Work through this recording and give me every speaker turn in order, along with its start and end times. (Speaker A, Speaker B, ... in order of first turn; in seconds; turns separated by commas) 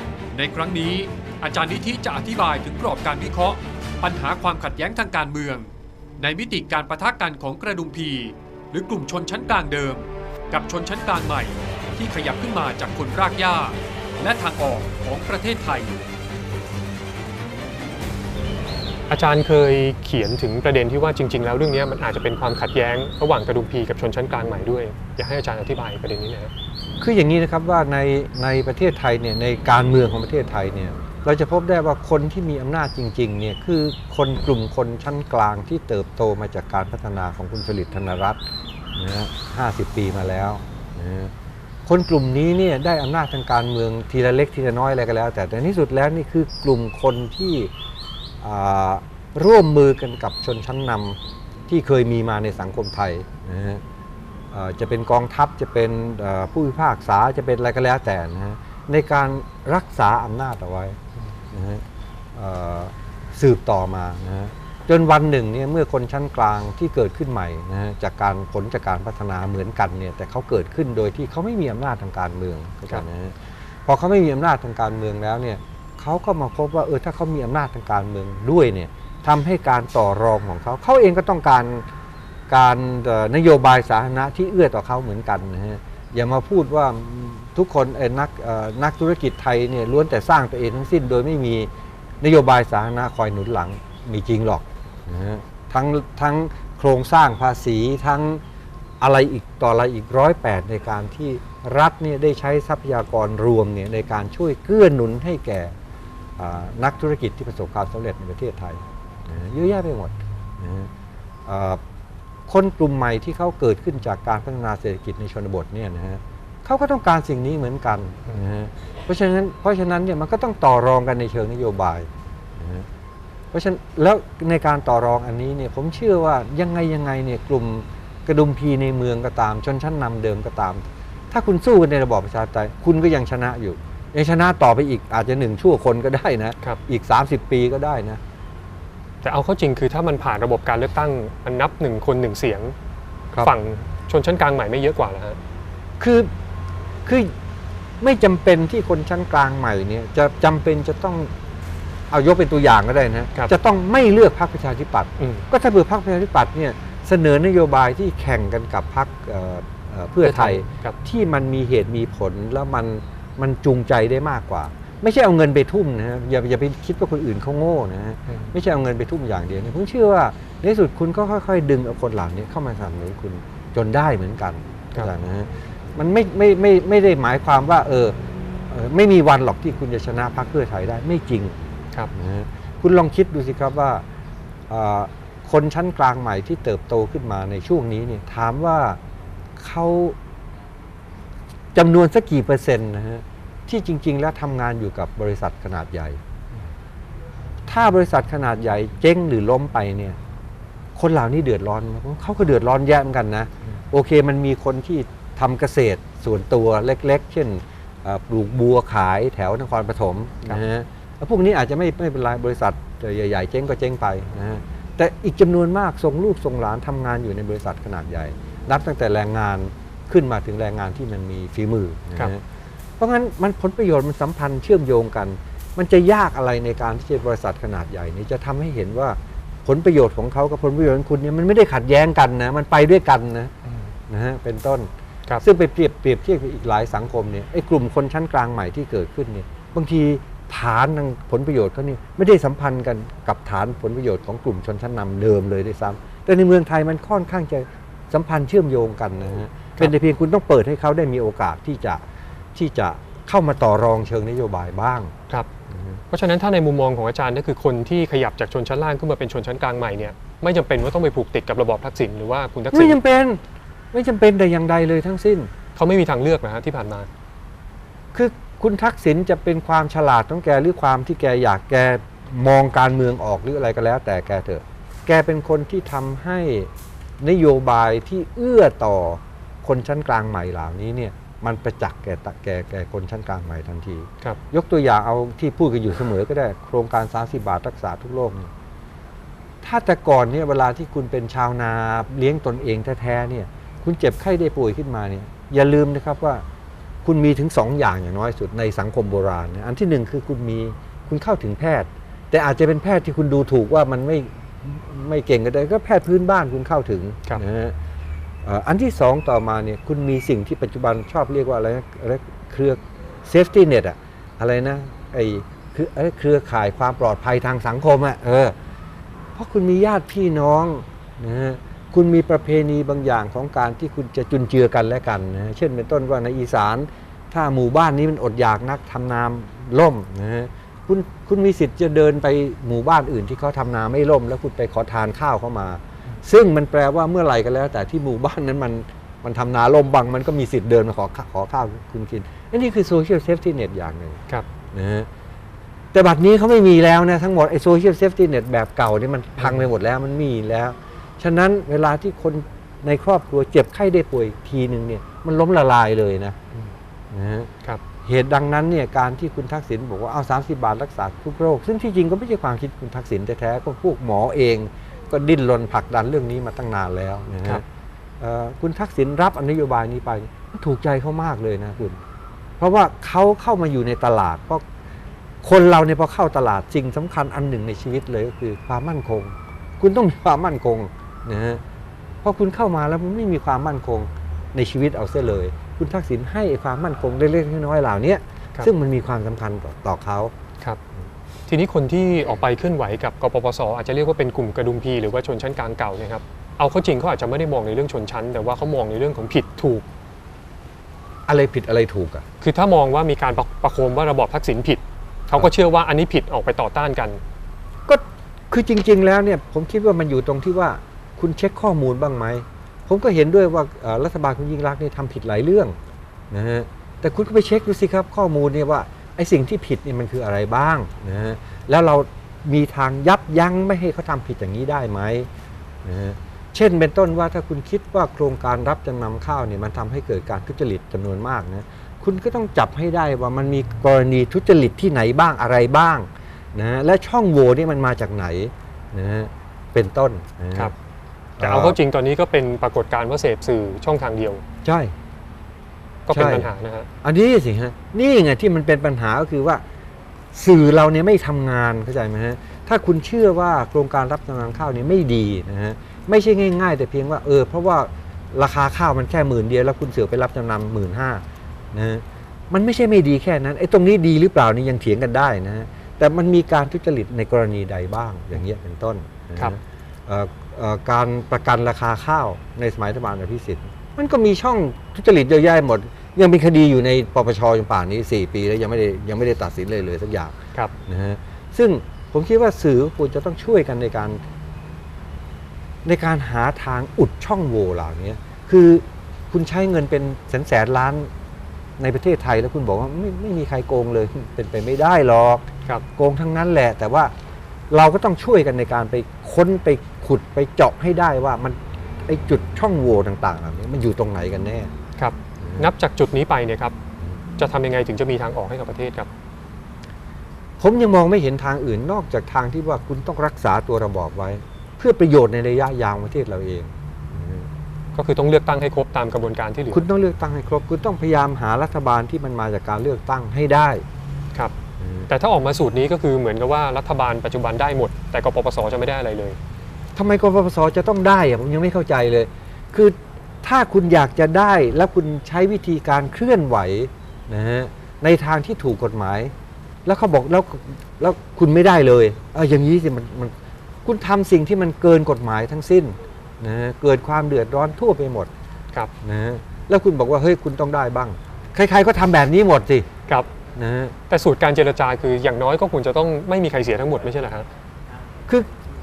Speaker A: 0.3-5.7, Speaker A: 6.2-16.0, Speaker B: 19.1-26.5, Speaker C: 27.0-38.4, Speaker C: 39.0-41.3, Speaker C: 41.9-47.7, Speaker C: 48.4-53.8, Speaker C: 54.5-61.0, Speaker C: 61.5-61.8, Speaker C: 62.4-81.9, Speaker C: 82.5-91.7, Speaker C: 92.2-98.4, Speaker C: 99.0-105.7, Speaker C: 106.4-110.9, Speaker C: 111.5-111.8, Speaker C: 112.5-122.9, Speaker C: 123.5-138.2, Speaker B: 139.2-142.7, Speaker B: 143.4-145.4, Speaker C: 146.0-146.3, Speaker C: 147.1-147.3, Speaker C: 148.0-151.3, Speaker C: 152.1-178.2, Speaker B: 155.2-155.4, Speaker B: 160.2-161.0, Speaker B: 168.3-168.5, Speaker C: 178.7-181.6, Speaker C: 182.1-184.0, Speaker C: 184.7-189.0, Speaker C: 189.6-190.2, Speaker C: 191.8-196.2, Speaker C: 197.7-200.2, Speaker C: 201.0-222.4, Speaker C: 223.0-233.5, Speaker C: 234.1-234.9, Speaker C: 235.4-252.0, Speaker C: 252.6-255.1, Speaker B: 256.1-263.0, Speaker C: 262.7-263.4, Speaker C: 263.9-265.5, Speaker B: 265.8-267.1, Speaker C: 268.1-276.7, Speaker C: 277.2-288.5, Speaker C: 289.6-296.4, Speaker C: 297.0-307.8, Speaker C: 308.4-318.6, Speaker C: 319.4-344.2, Speaker C: 344.7-345.1, Speaker C: 345.9-356.4, Speaker C: 357.1-357.5, Speaker C: 358.1-367.6, Speaker C: 368.2-372.0, Speaker C: 372.6-374.6, Speaker C: 375.4-381.6, Speaker C: 382.2-390.3, Speaker B: 391.5-399.9, Speaker C: 401.3-402.2, Speaker B: 402.4-407.2, Speaker C: 407.9-415.8, Speaker C: 416.3-425.3, Speaker C: 425.8-440.7, Speaker C: 441.4-441.8, Speaker B: 441.4-444.4, Speaker C: 444.6-444.9, Speaker B: 446.1-446.9, Speaker C: 446.1-446.5, Speaker C: 447.0-449.6, Speaker C: 450.3-484.2, Speaker C: 485.9-491.1, Speaker C: 491.8-495.4, Speaker C: 496.0-497.1, Speaker C: 497.7-504.7, Speaker B: 505.0-506.8, Speaker B: 507.4-509.1, Speaker C: 510.6-517.5, Speaker B: 517.9-519.9, Speaker C: 519.7-523.8, Speaker C: 524.8-525.1, Speaker B: 525.1-529.4, Speaker C: 530.0-539.3, Speaker C: 539.9-543.3, Speaker C: 543.9-548.3, Speaker C: 549.0-552.9, Speaker C: 553.6-554.0, Speaker B: 554.1-557.5